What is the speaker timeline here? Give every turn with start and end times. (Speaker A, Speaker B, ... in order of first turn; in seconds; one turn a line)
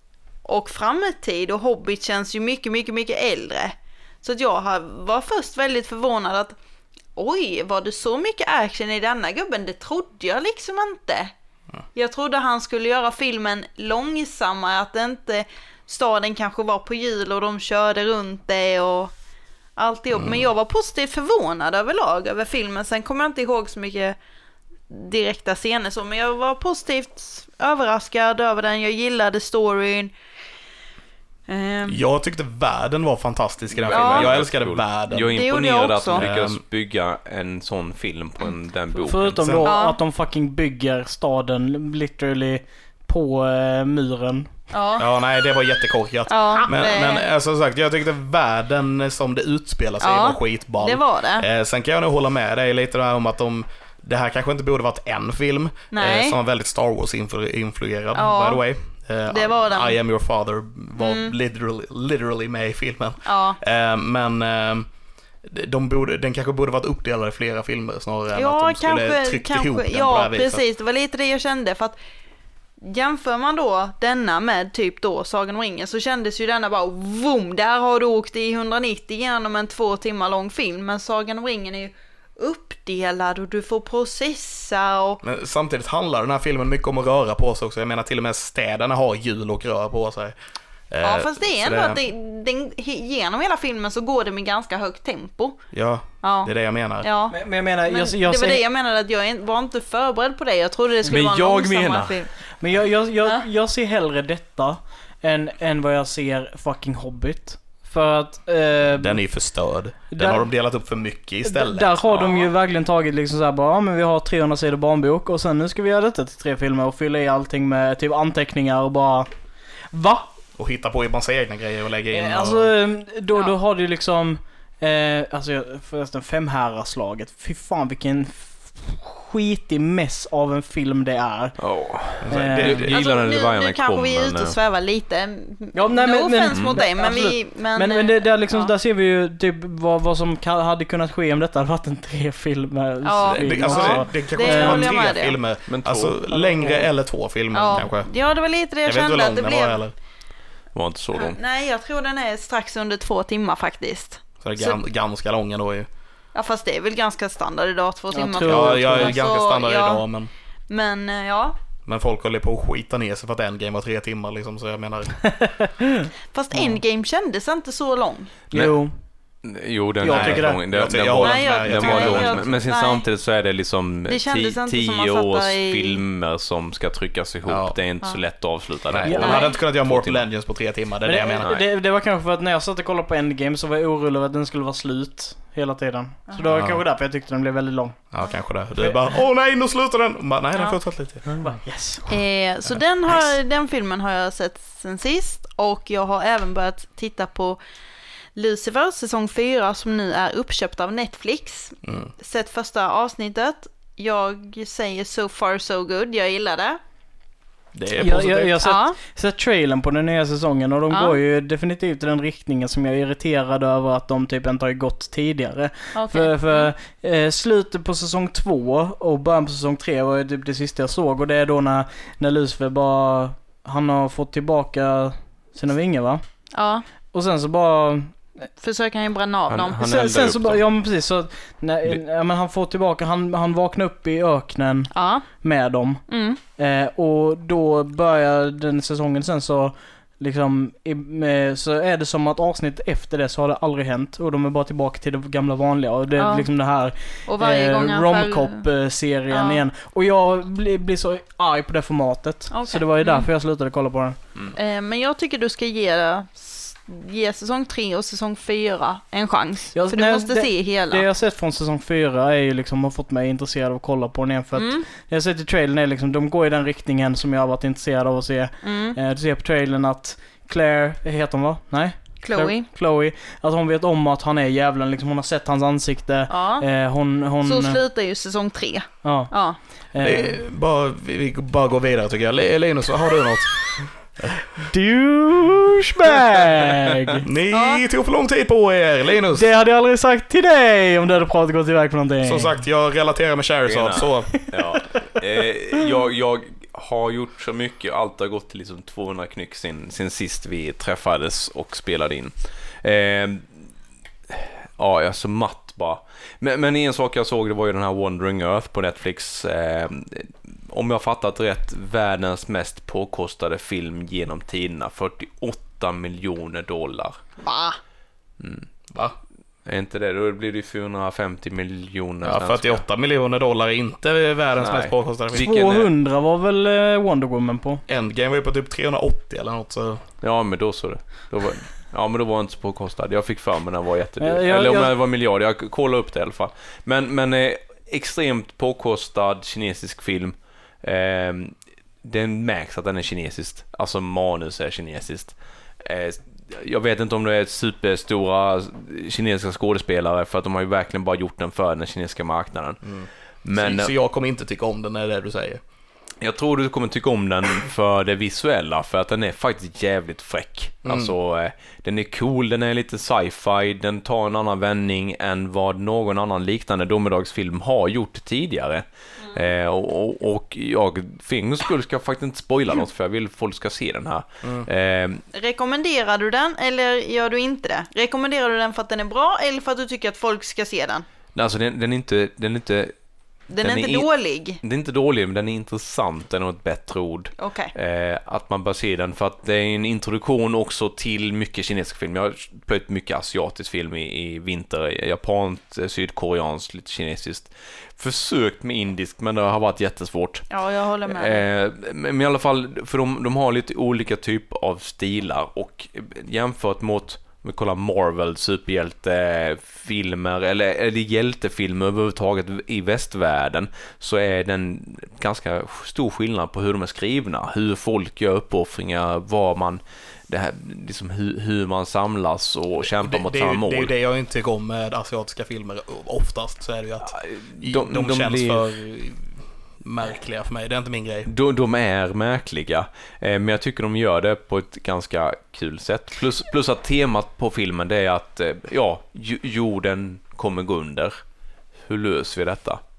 Speaker A: 0.5-6.5
Speaker A: 7.2-11.3
Speaker A: 11.9-19.1
Speaker A: 19.8-24.2
Speaker B: 20.1-20.5
Speaker A: 24.9-30.1
Speaker A: 31.5-32.0
Speaker B: 31.9-35.3
Speaker C: 33.8-39.5
Speaker A: 33.9-34.4
Speaker A: 35.1-36.2
Speaker B: 36.1-36.6
Speaker D: 39.0-44.5
Speaker B: 39.4-39.7
Speaker A: 39.7-40.0
Speaker A: 44.7-45.1
Speaker B: 45.0-64.9
Speaker A: 46.3-47.3
Speaker A: 50.0-51.5
Speaker A: 55.9-56.4
Speaker A: 58.1-58.6
Speaker A: 59.3-60.0
Speaker A: 61.0-61.4
Speaker A: 63.2-63.6
Speaker B: 65.4-70.6
Speaker A: 68.3-72.0
Speaker A: 72.8-85.2
Speaker B: 85.2-90.3
Speaker B: 90.9-92.0
Speaker A: 91.0-102.3
Speaker B: 95.7-97.1
Speaker D: 97.3-98.6
Speaker C: 101.0-102.2
Speaker D: 102.6-109.2
Speaker B: 108.9-112.0
Speaker D: 110.1-110.5
Speaker D: 111.4-119.3
Speaker C: 112.1-112.5
Speaker D: 119.9-120.3
Speaker B: 120.6-122.7
Speaker D: 122.1-131.6
Speaker C: 131.6-134.6
Speaker B: 132.2-132.9
Speaker D: 132.3-132.9
Speaker A: 132.9-138.7
Speaker D: 135.7-145.0
Speaker C: 136.5-136.8
Speaker A: 143.0-145.4
Speaker B: 143.3-148.1
Speaker C: 145.7-146.2
Speaker D: 146.4-146.8
Speaker A: 147.5-149.8
Speaker B: 148.8-149.9
Speaker C: 150.7-151.4
Speaker A: 151.2-154.8
Speaker B: 154.4-155.9
Speaker A: 156.3-160.1
Speaker D: 158.1-159.2
Speaker B: 158.4-160.3
Speaker A: 160.7-161.6
Speaker B: 161.9-165.2
Speaker D: 165.4-166.8
Speaker A: 166.3-168.4
Speaker D: 168.5-169.0
Speaker C: 169.4-180.2
Speaker D: 170.0-170.6
Speaker B: 170.1-172.6
Speaker A: 171.2-173.1
Speaker A: 174.1-176.0
Speaker B: 177.5-177.8
Speaker B: 178.9-181.5
Speaker D: 179.1-179.4
Speaker A: 179.2-179.6
Speaker D: 181.0-188.1
Speaker C: 181.4-181.7
Speaker B: 186.5-186.8
Speaker B: 188.1-191.3
Speaker D: 191.4-192.1
Speaker A: 192.1-197.6
Speaker A: 198.4-206.8
Speaker B: 201.8-202.1
Speaker B: 207.7-208.6
Speaker D: 208.0-226.2
Speaker A: 208.6-209.0
Speaker A: 210.9-211.2
Speaker A: 215.9-216.7
Speaker A: 226.5-226.8
Speaker D: 227.1-228.2
Speaker A: 228.6-229.9
Speaker C: 229.5-230.6
Speaker D: 229.8-236.1
Speaker A: 234.9-235.2
Speaker A: 236.1-236.4
Speaker D: 236.6-254.2
Speaker A: 246.2-246.5
Speaker A: 247.3-248.7
Speaker A: 249.3-249.6
Speaker A: 252.5-253.3
Speaker A: 254.5-261.1
Speaker D: 259.8-277.8
Speaker A: 264.6-264.9
Speaker A: 268.6-269.0
Speaker A: 272.2-272.7
Speaker A: 276.3-276.7
Speaker A: 277.4-279.6
Speaker D: 279.0-280.4
Speaker B: 280.0-284.3
Speaker D: 284.6-287.2
Speaker B: 287.2-289.5
Speaker A: 287.5-287.8
Speaker D: 289.3-292.6
Speaker B: 292.2-294.4
Speaker C: 293.7-303.6
Speaker D: 294.3-295.2
Speaker C: 304.3-317.2
Speaker A: 317.4-317.8
Speaker C: 318.4-318.7
Speaker C: 319.6-322.8
Speaker B: 322.2-325.5
Speaker C: 324.6-325.9
Speaker D: 325.4-327.8
Speaker B: 327.9-330.1
Speaker C: 330.2-353.9
Speaker D: 334.2-334.9
Speaker B: 352.8-355.6
Speaker C: 356.2-375.2
Speaker B: 360.9-361.1
Speaker B: 374.4-374.7
Speaker A: 375.3-381.1
Speaker C: 381.3-382.9
Speaker A: 383.5-384.6
Speaker C: 383.6-384.1
Speaker C: 384.6-400.5
Speaker A: 387.4-387.7
Speaker A: 400.5-401.4
Speaker C: 401.1-423.9
Speaker B: 422.8-431.3
Speaker C: 427.1-428.6
Speaker C: 431.3-441.2
Speaker C: 441.9-442.8